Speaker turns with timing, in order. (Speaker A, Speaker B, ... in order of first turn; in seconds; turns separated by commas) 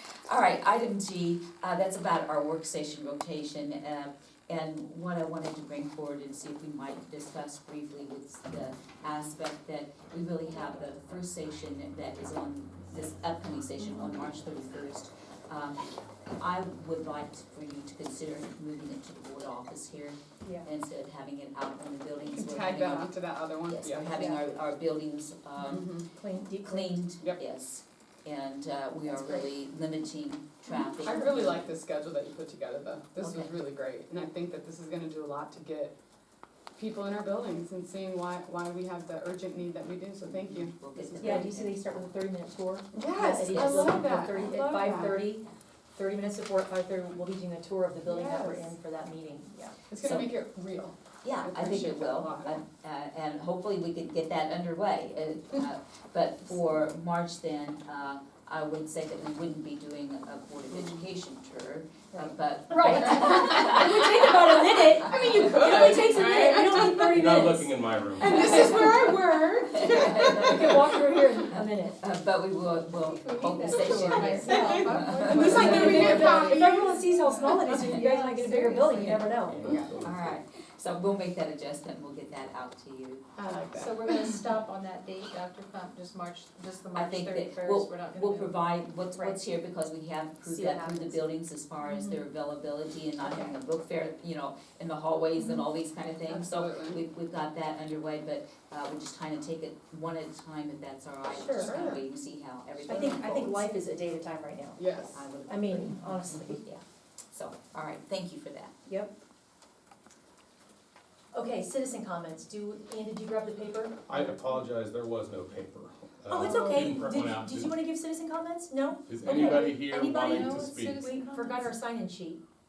Speaker A: 0.3-23.1, Speaker B: 22.2-24.1, Speaker A: 23.6-25.9, Speaker C: 24.1-24.4, Speaker B: 25.6-26.1, Speaker D: 26.2-26.9, Speaker A: 26.6-31.6, Speaker B: 30.7-36.0, Speaker A: 33.2-33.5, Speaker B: 36.8-41.3, Speaker A: 40.3-42.1, Speaker D: 41.2-49.7, Speaker B: 42.9-45.2, Speaker A: 43.4-44.0, Speaker B: 48.1-48.7, Speaker B: 49.9-52.6, Speaker A: 50.0-50.3, Speaker A: 51.2-64.6, Speaker B: 60.7-61.0, Speaker D: 62.2-67.7, Speaker B: 64.9-67.3, Speaker E: 67.0-68.8, Speaker B: 68.2-70.5, Speaker D: 68.3-72.0, Speaker A: 69.7-76.2, Speaker C: 72.9-79.5, Speaker B: 74.3-77.5, Speaker D: 75.3-79.6, Speaker A: 77.6-78.2, Speaker A: 78.9-79.3, Speaker E: 79.4-80.4, Speaker B: 79.6-79.9, Speaker A: 80.0-83.2, Speaker B: 83.4-84.4, Speaker C: 83.8-88.6, Speaker A: 86.9-103.7, Speaker D: 90.4-91.2, Speaker D: 91.8-92.1, Speaker B: 96.2-97.0, Speaker D: 101.3-101.7, Speaker B: 101.5-102.0, Speaker D: 102.8-104.8, Speaker B: 104.8-105.2, Speaker A: 105.1-108.7, Speaker D: 105.5-106.6, Speaker D: 111.3-114.0, Speaker E: 114.1-117.8, Speaker D: 116.3-122.4, Speaker C: 116.6-116.8, Speaker E: 119.0-121.0, Speaker C: 119.3-121.8